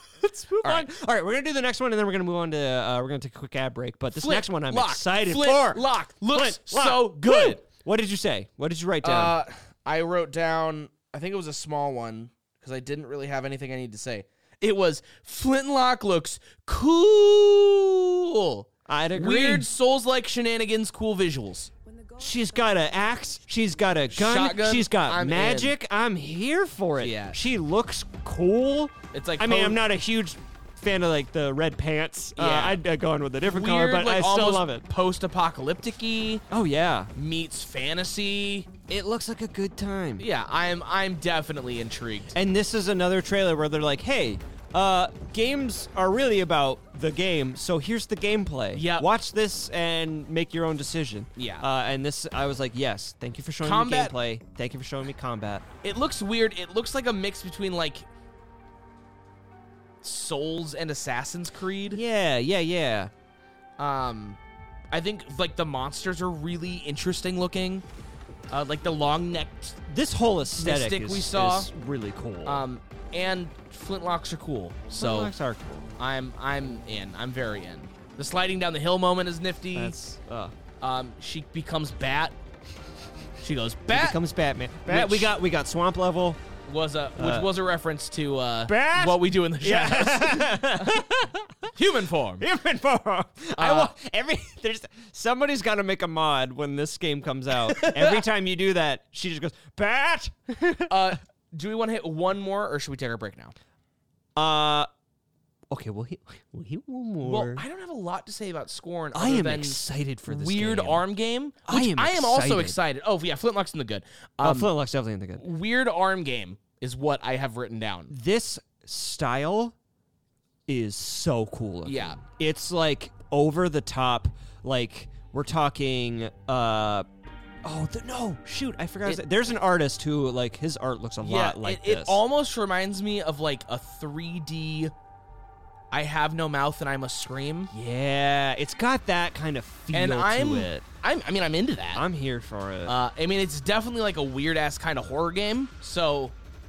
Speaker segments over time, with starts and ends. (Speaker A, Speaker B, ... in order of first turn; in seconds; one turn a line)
Speaker A: 0.2-9.4
Speaker B: 4.1-7.6
Speaker B: 9.0-21.7
Speaker A: 18.9-19.7
Speaker A: 22.2-34.9
Speaker B: 24.1-25.7
Speaker B: 27.0-27.4
Speaker B: 29.1-29.8
Speaker B: 32.4-32.8
Speaker B: 33.4-36.4
Speaker A: 36.5-37.1
Speaker B: 37.1-38.7
Speaker A: 38.9-40.3
Speaker B: 40.2-42.3
Speaker A: 42.3-55.6
Speaker B: 48.7-49.1
Speaker B: 51.4-51.6
Speaker B: 53.6-54.1
Speaker B: 55.8-58.1
Speaker B: 60.0-62.0
Speaker A: 61.9-63.1
Speaker B: 63.8-64.4
Speaker B: 64.9-67.8
Speaker B: 68.5-69.8
Speaker A: 69.9-72.6
Speaker B: 70.6-71.7
Speaker B: 72.4-75.3
Speaker A: 74.9-75.8
Speaker B: 76.0-79.9
Speaker A: 79.7-80.5
Speaker B: 80.8-82.4
Speaker B: 83.4-84.2
Speaker A: 83.9-86.4
Speaker B: 84.9-85.3
Speaker B: 86.7-91.0
Speaker A: 87.1-87.5
Speaker A: 88.7-91.7
Speaker B: 91.8-92.5
Speaker A: 92.4-101.1
Speaker B: 93.6-93.9
Speaker B: 97.7-98.2
Speaker B: 100.9-103.5
Speaker A: 104.4-104.9
Speaker A: 105.7-107.6
Speaker B: 107.2-114.7
Speaker A: 109.1-111.0
Speaker A: 111.7-112.8
Speaker A: 114.4-115.5
Speaker B: 115.4-118.1
Speaker A: 118.1-119.8
Speaker A: 120.7-127.1
Speaker B: 121.9-122.2
Speaker A: 127.6-132.2
Speaker B: 131.2-134.9
Speaker B: 135.9-137.7
Speaker A: 137.7-140.8
Speaker B: 139.9-142.0
Speaker A: 141.9-142.9
Speaker B: 142.8-146.3